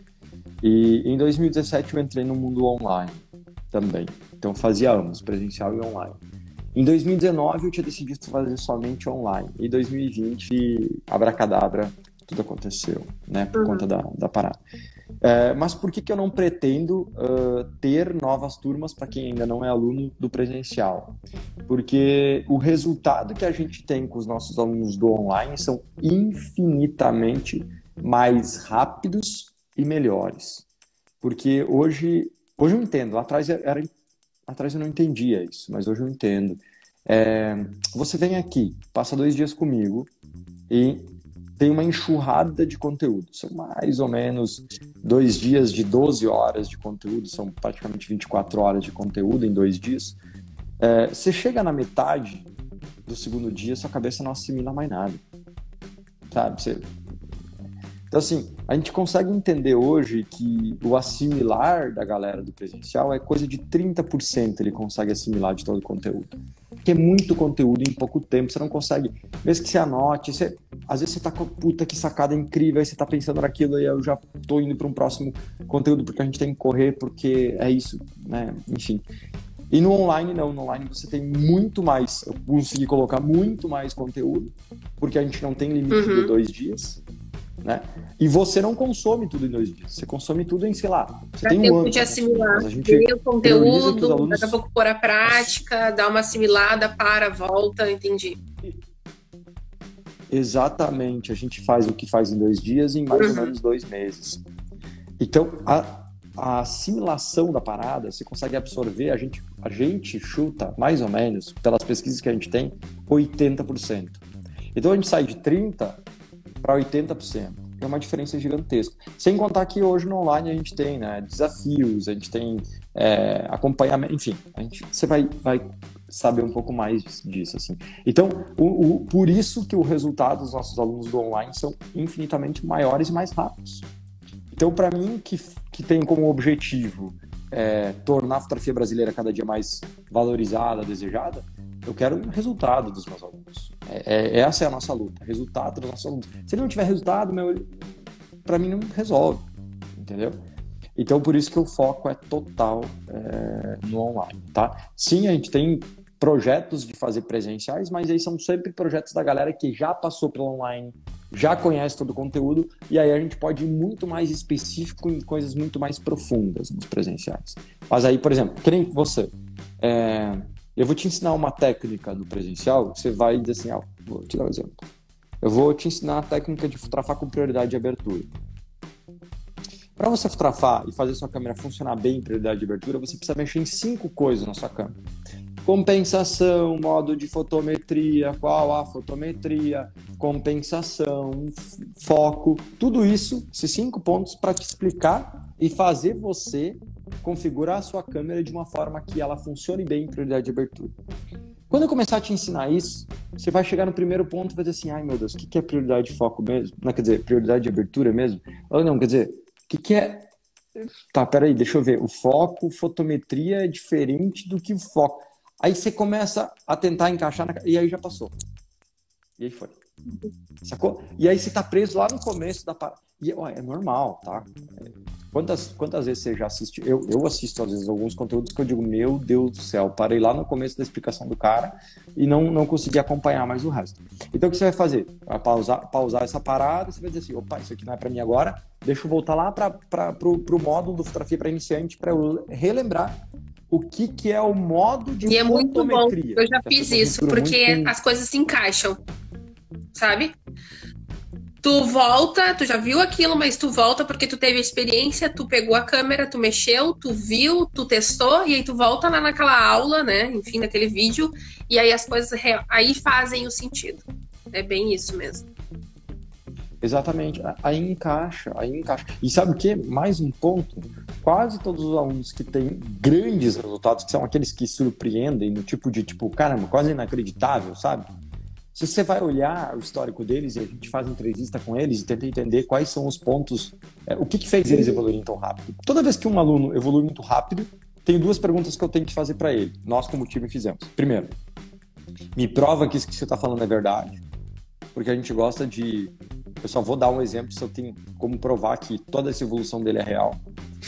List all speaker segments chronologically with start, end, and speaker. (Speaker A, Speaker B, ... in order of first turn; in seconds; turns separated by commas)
Speaker A: 0.6-6.2, Speaker A: 6.7-14.6, Speaker B: 13.5-13.8, Speaker A: 15.2-30.6, Speaker A: 31.2-33.9, Speaker A: 34.5-40.1, Speaker A: 40.7-50.2, Speaker A: 50.8-52.5, Speaker A: 53.0-55.2, Speaker A: 56.3-56.8, Speaker A: 58.1-79.0, Speaker A: 79.7-87.0, Speaker B: 85.9-86.3, Speaker A: 87.6-94.6, Speaker B: 91.4-98.4, Speaker A: 100.3-104.4, Speaker B: 103.1-103.5, Speaker A: 105.2-114.2, Speaker A: 114.7-116.0, Speaker A: 116.6-133.8, Speaker A: 134.5-147.7, Speaker A: 148.4-149.4, Speaker A: 150.0-150.4, Speaker A: 150.9-174.8, Speaker A: 175.4-178.3, Speaker A: 180.0-184.9, Speaker A: 185.6-200.9, Speaker A: 201.7-210.3, Speaker A: 211.1-218.3, Speaker A: 219.4-219.7, Speaker A: 220.6-243.2, Speaker A: 243.7-247.9, Speaker B: 245.2-249.0, Speaker B: 249.9-250.3, Speaker B: 251.6-265.5, Speaker A: 266.8-278.1, Speaker A: 278.7-291.3, Speaker B: 284.7-285.0, Speaker A: 292.3-294.2, Speaker A: 294.9-300.4